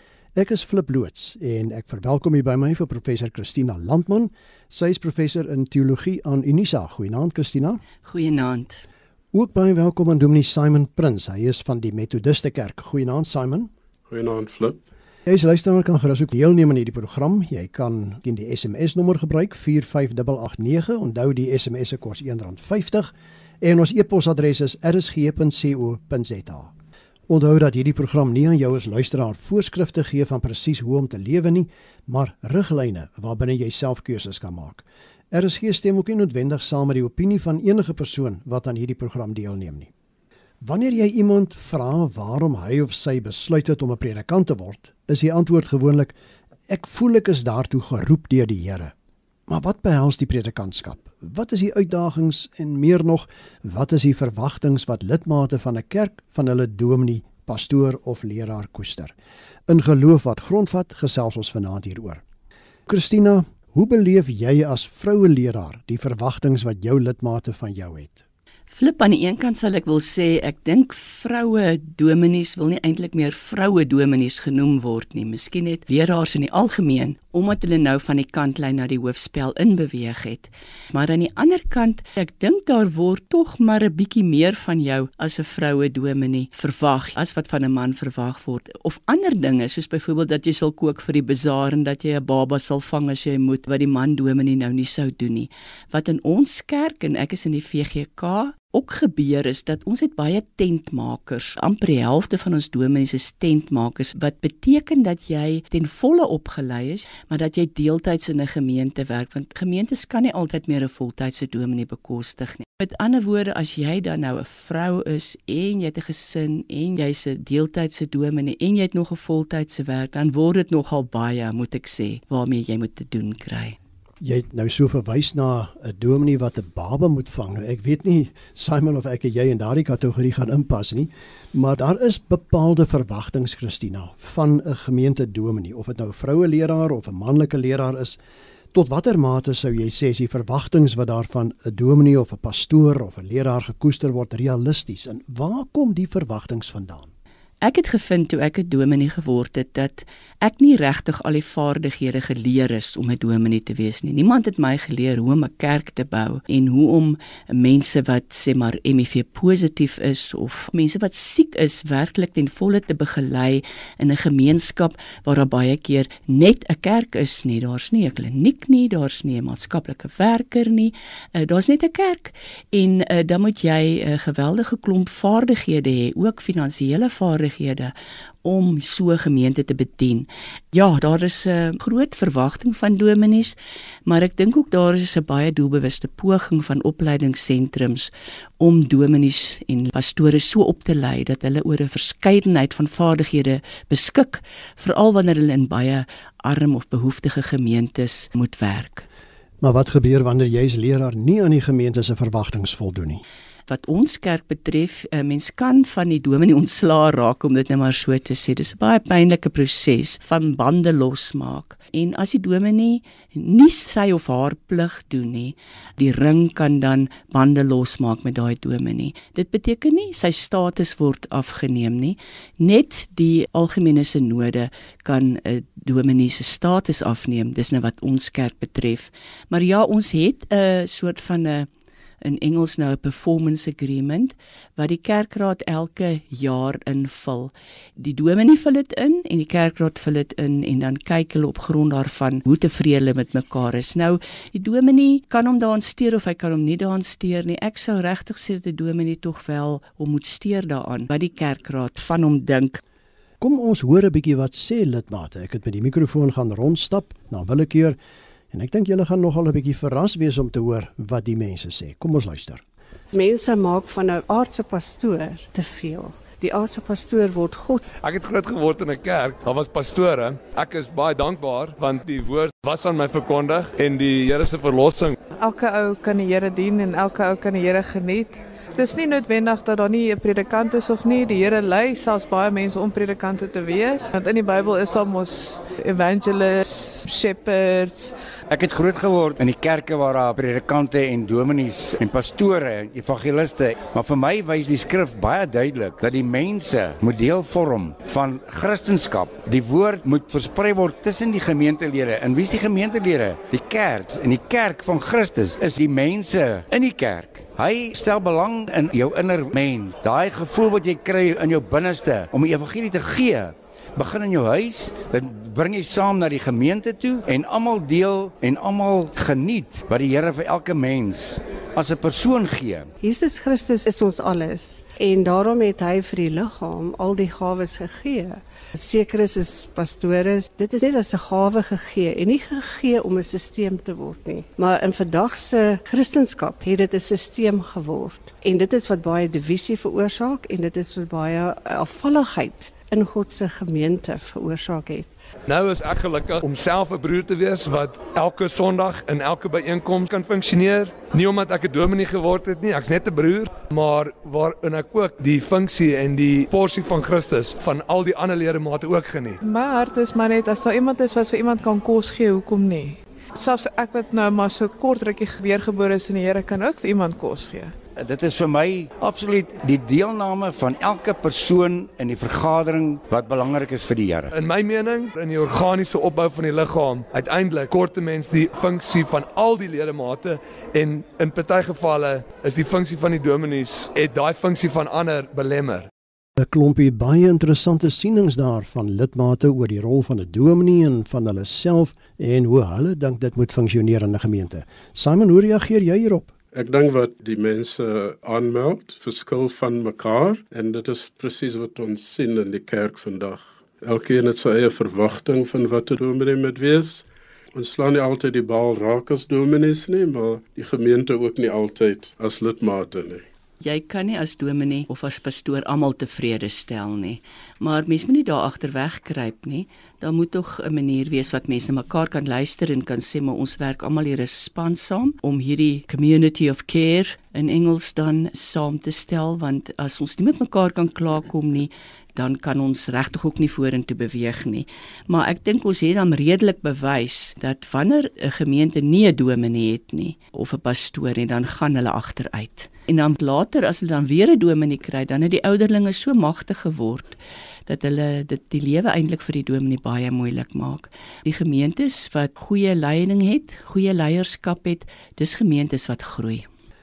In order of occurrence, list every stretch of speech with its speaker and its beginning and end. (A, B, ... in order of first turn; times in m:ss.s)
0:00.4-0:07.8 A
0:08.0-0:08.8 B
0:09.3-0:13.7 A
0:14.1-0:14.8 C
0:15.3-0:26.7 A
0:27.3-0:39.9 A
0:40.6-0:46.1 A
0:46.7-0:48.9 A
0:49.5-0:59.1 A
0:59.7-1:02.2 A
1:02.9-1:08.2 A
1:08.7-2:03.8 B
2:04.2-2:18.2 A
2:18.7-2:27.1 A
2:27.6-3:19.0 B
3:19.6-3:23.2 A
3:23.7-3:51.7 B
3:52.2-4:12.8 B
4:13.4-4:18.0 A
4:18.5-4:22.6 A
4:23.1-4:27.8 D
4:28.0-4:35.2 E
4:35.4-4:48.2 F
4:48.5-5:22.9 G
5:23.0-5:45.1 D
5:45.5-5:59.4 E
5:59.4-6:07.7 F
6:08.0-6:14.3 G
6:14.3-6:25.9 E
6:26.4-6:36.3 A
6:36.5-6:53.3 C
6:53.6-7:36.5 B